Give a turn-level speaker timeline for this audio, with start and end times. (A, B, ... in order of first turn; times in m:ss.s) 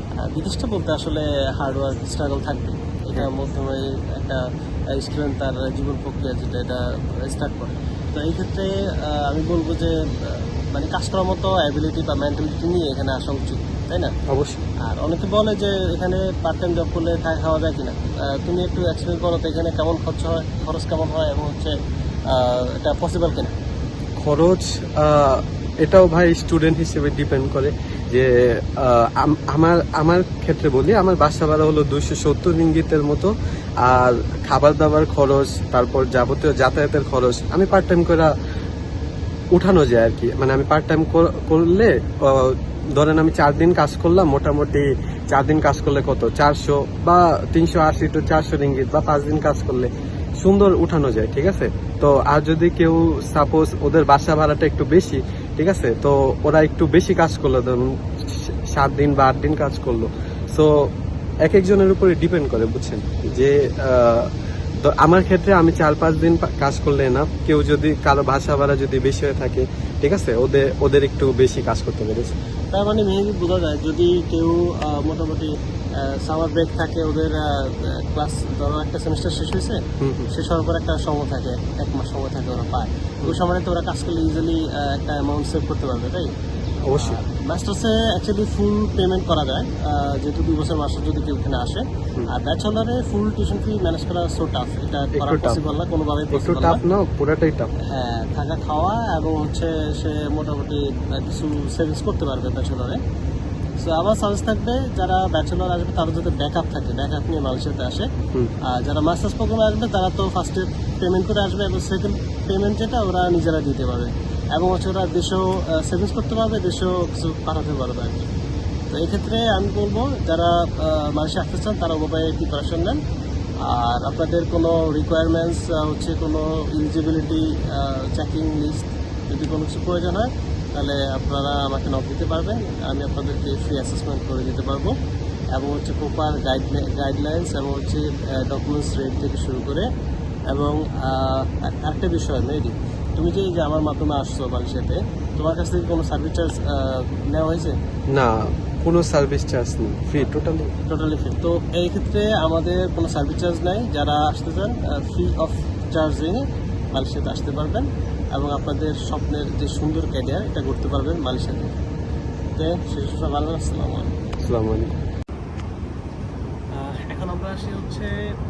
0:00.2-0:14.1 A
0:14.3-0:14.6 B
0:14.8-0:21.8 A
0:22.3-0:23.5 A
0:24.2-0:33.3 B
0:33.8-0:38.3 B
0:39.5-1:00.9 B
1:01.4-1:04.3 B
1:04.8-1:12.3 B
1:12.7-1:19.8 A
1:20.0-1:20.3 B
1:20.3-1:26.3 A
1:26.8-1:27.2 B
1:26.9-1:36.8 A
1:35.1-1:35.6 B
1:36.3-1:37.7 B
1:37.8-1:43.0 A
1:43.8-1:48.1 A
1:48.6-1:58.2 A
1:58.9-2:03.0 A
2:03.6-2:14.9 A
2:15.5-2:19.9 A
2:20.5-2:27.8 A
2:28.1-2:30.7 B
2:30.8-2:41.8 A
2:42.6-2:44.2 A
2:44.4-2:44.9 B
2:46.7-2:48.1 A